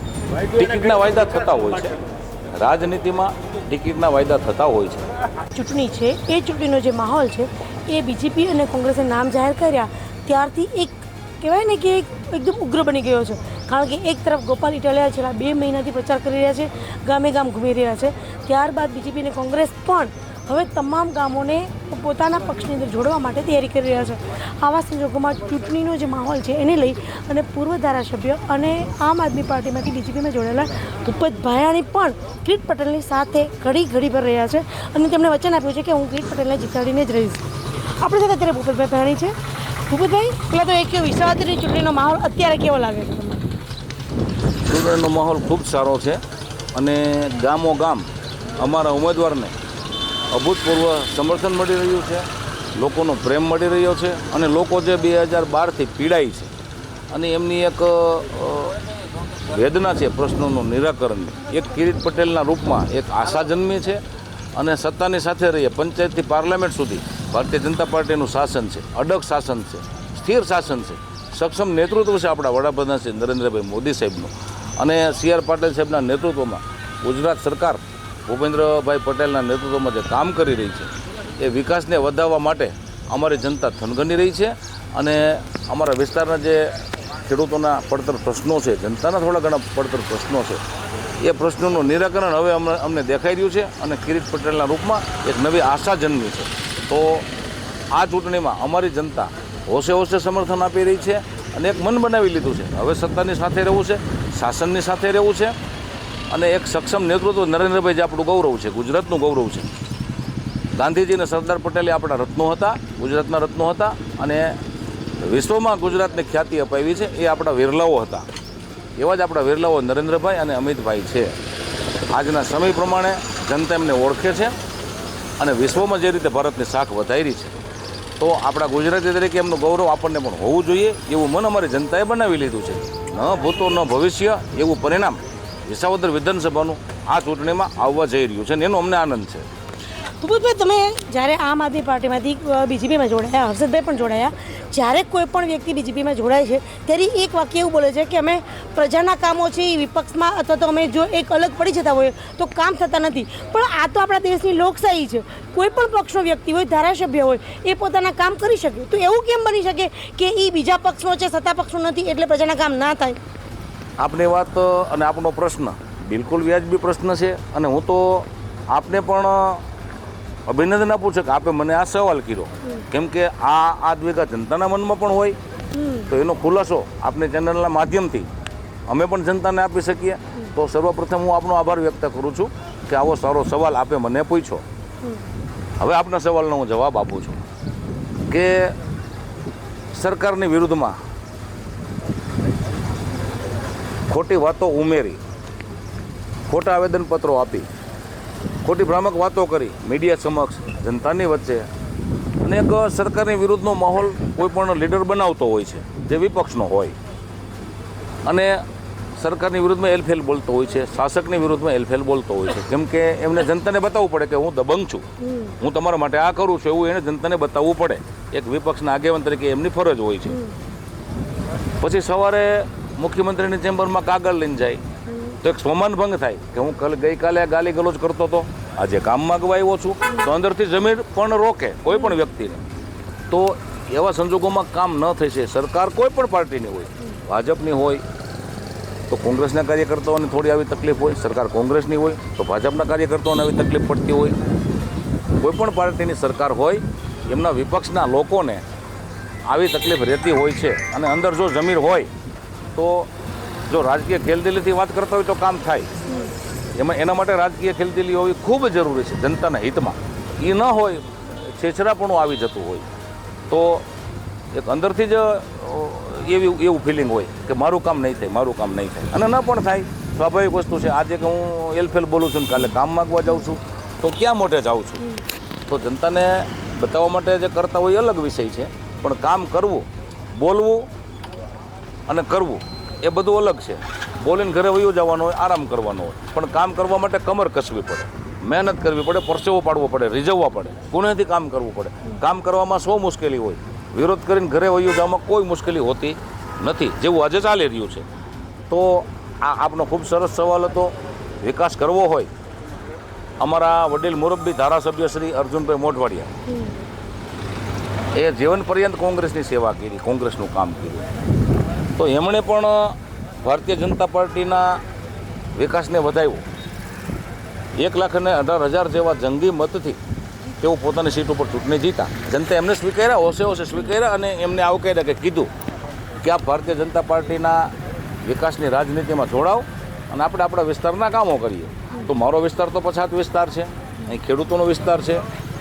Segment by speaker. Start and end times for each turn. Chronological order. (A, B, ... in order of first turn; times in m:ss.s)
0:00.5-0:02.0 A
0:02.6-0:05.0 A
0:05.5-0:37.4 B
0:38.0-0:39.4 B
0:39.9-0:43.4 B
0:44.6-0:46.2 A
0:46.7-0:48.0 A
0:48.6-0:49.5 A
0:50.3-0:56.5 A
0:57.1-0:58.8 A
0:59.5-1:04.0 A
1:04.6-1:30.6 A
1:31.2-1:37.3 A
1:37.9-1:45.5 A
1:46.3-1:49.7 A
1:50.8-1:54.6 A
1:55.2-1:58.2 A
1:59.0-2:01.3 A
2:02.1-2:04.5 A
2:05.4-2:07.5 A
2:08.2-2:19.4 A
2:20.2-2:43.2 B
2:44.0-2:49.6 A
2:50.5-2:55.4 A
2:55.7-2:56.1 B
2:56.1-2:58.3 A
2:58.9-3:04.6 A
3:05.8-3:07.4 A
3:08.3-3:08.7 A
3:09.9-3:11.0 A
3:14.1-3:15.2 A
3:16.5-3:17.7 A
3:18.6-3:21.7 A
3:22.4-3:26.9 A
3:28.2-3:28.6 A
3:29.2-3:35.0 A
3:35.2-3:35.5 B
3:35.6-3:40.4 A
3:40.3-3:40.5 B
3:41.8-3:44.8 A
3:45.1-3:45.4 B
3:45.4-3:52.6 A
3:53.3-3:58.0 A
3:59.1-4:04.4 A
4:05.4-4:08.6 A
4:09.5-4:12.1 A
4:12.7-4:13.1 A
4:13.7-4:15.9 A
4:16.7-4:22.8 A
4:23.5-4:23.8 A
4:24.5-4:35.0 A
4:35.7-4:39.8 A
4:40.4-4:40.8 A
4:42.1-4:58.0 A
4:58.7-5:02.3 A
5:03.4-5:06.3 A
5:06.5-5:06.8 B
5:08.1-5:11.1 A
5:12.0-5:14.8 A
5:15.5-5:16.4 A
5:17.8-5:20.0 A
5:20.6-5:25.5 A
5:26.2-5:35.2 A